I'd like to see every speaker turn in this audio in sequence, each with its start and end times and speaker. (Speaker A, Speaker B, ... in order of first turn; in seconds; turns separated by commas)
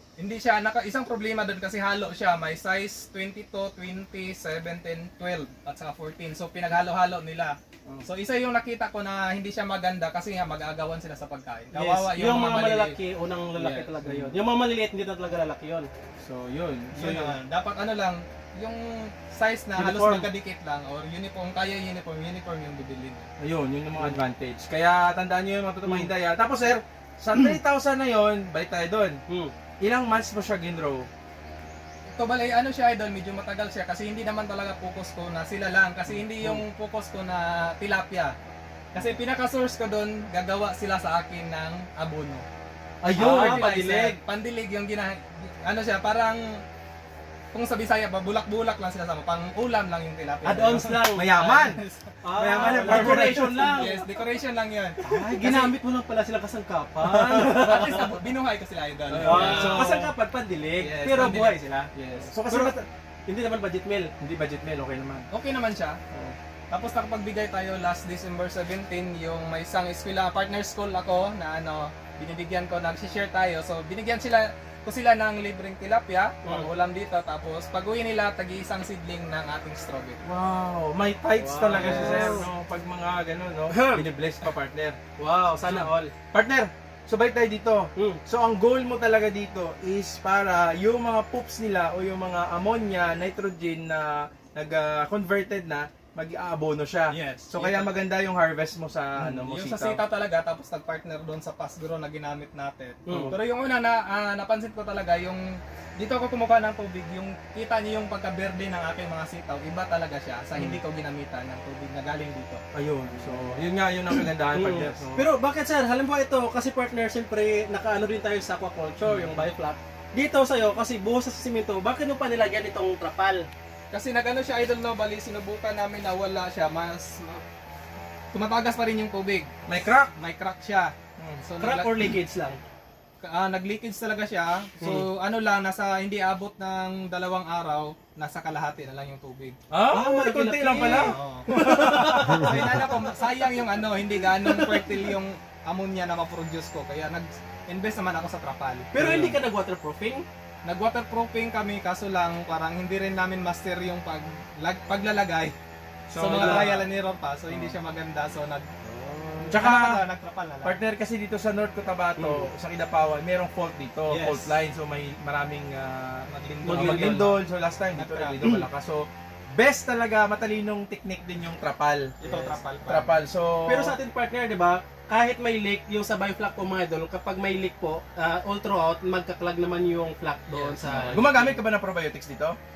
Speaker A: 0.2-12.9, Speaker B: 11.7-15.9, Speaker A: 13.5-13.9, Speaker C: 14.0-14.3, Speaker C: 16.2-17.4, Speaker A: 16.9-23.3, Speaker B: 19.8-20.3, Speaker C: 23.4-29.2, Speaker B: 23.9-24.3, Speaker B: 25.8-26.1, Speaker B: 29.3-29.5, Speaker C: 29.8-31.1, Speaker A: 32.1-38.4, Speaker A: 38.9-42.4, Speaker C: 43.0-43.7, Speaker B: 43.1-44.2, Speaker A: 43.1-46.6, Speaker A: 47.5-55.0, Speaker B: 50.4-51.3, Speaker C: 51.1-51.8, Speaker B: 52.2-54.0, Speaker C: 52.4-53.9, Speaker C: 55.0-55.7, Speaker B: 55.0-58.1, Speaker C: 57.0-57.7, Speaker A: 57.3-59.9, Speaker C: 59.1-60.1, Speaker B: 59.2-61.9, Speaker A: 60.8-62.2, Speaker C: 62.0-62.9, Speaker B: 62.5-62.8, Speaker B: 63.3-64.1, Speaker C: 64.2-65.3, Speaker A: 65.3-66.0, Speaker A: 66.7-80.2, Speaker B: 76.4-76.7, Speaker C: 80.2-85.0, Speaker B: 81.4-82.5, Speaker A: 81.7-82.4, Speaker B: 83.7-84.0, Speaker B: 85.2-86.1, Speaker C: 85.6-100.0, Speaker A: 97.1-97.9, Speaker A: 99.2-112.6, Speaker B: 103.1-103.3, Speaker C: 103.1-103.3, Speaker C: 112.7-115.2, Speaker B: 113.2-113.6, Speaker B: 114.5-123.5, Speaker C: 119.0-119.4, Speaker A: 123.9-127.4, Speaker A: 128.3-129.5, Speaker C: 129.7-130.1, Speaker A: 130.1-131.9, Speaker C: 131.2-131.4, Speaker B: 131.6-132.6, Speaker A: 133.2-139.6, Speaker C: 139.7-142.6, Speaker B: 139.9-143.0, Speaker A: 140.8-148.9, Speaker B: 144.2-145.1, Speaker B: 148.9-150.2, Speaker C: 149.0-149.3, Speaker A: 150.6-155.6, Speaker C: 156.1-156.8, Speaker B: 156.1-156.8, Speaker A: 156.2-158.7, Speaker B: 158.8-159.6, Speaker A: 159.4-160.8, Speaker C: 159.4-160.0, Speaker C: 160.6-172.1, Speaker B: 162.2-162.5, Speaker A: 164.1-164.5, Speaker A: 166.3-167.4, Speaker B: 166.6-167.3, Speaker A: 167.9-168.5, Speaker A: 172.2-173.2, Speaker B: 172.2-172.6, Speaker C: 172.9-173.9, Speaker B: 173.6-181.3, Speaker A: 180.5-181.6, Speaker C: 181.0-182.6